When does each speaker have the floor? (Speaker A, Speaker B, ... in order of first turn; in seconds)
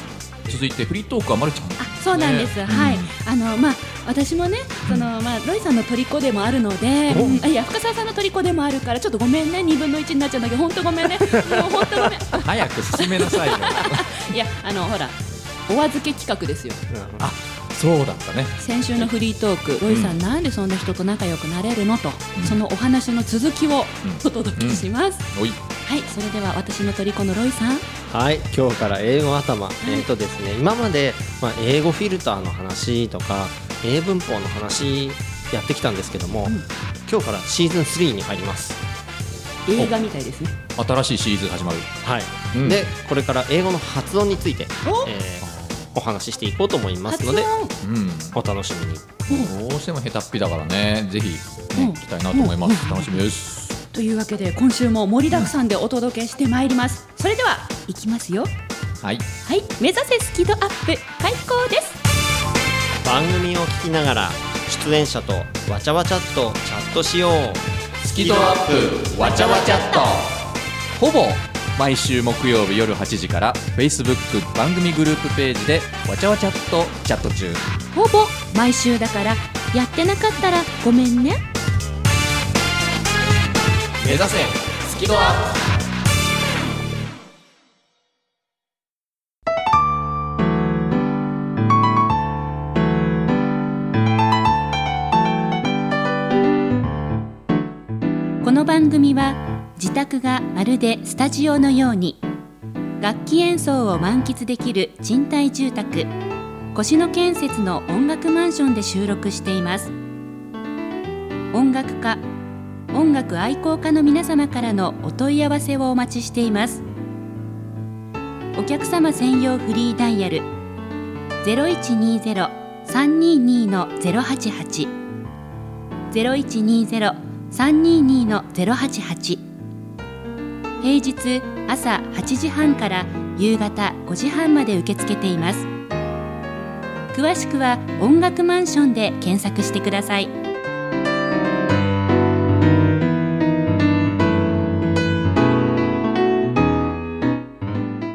Speaker A: 0.5-3.1, 7.1-7.5, 12.3-14.2, 17.2-19.1, 19.9-20.1, 22.3-22.6, 24.0-25.6, 40.7-41.9, 42.5-42.8, 45.4-46.0, 47.8-48.4, 49.3-53.8, 59.0-59.2, 68.0-70.4, 71.0-77.7, 84.0-85.5
Speaker B: 1.8-15.2, 15.7-16.8, 18.6-25.3, 25.8-27.8, 29.8-30.1, 39.7-40.5, 47.1-47.7, 51.7-53.2, 53.9-58.5, 59.4-62.0, 77.9-81.4, 98.4-102.2, 103.0-106.1, 106.7-109.9, 111.5-112.2, 112.9-116.8, 118.6-120.4, 121.4-124.9, 126.1-129.4, 130.8-135.6, 137.1-140.3
Speaker C: 7.1-7.4, 11.2-11.9, 16.9-17.3, 28.1-38.8, 42.0-47.5, 48.3-49.2, 63.0-67.6, 68.2-68.6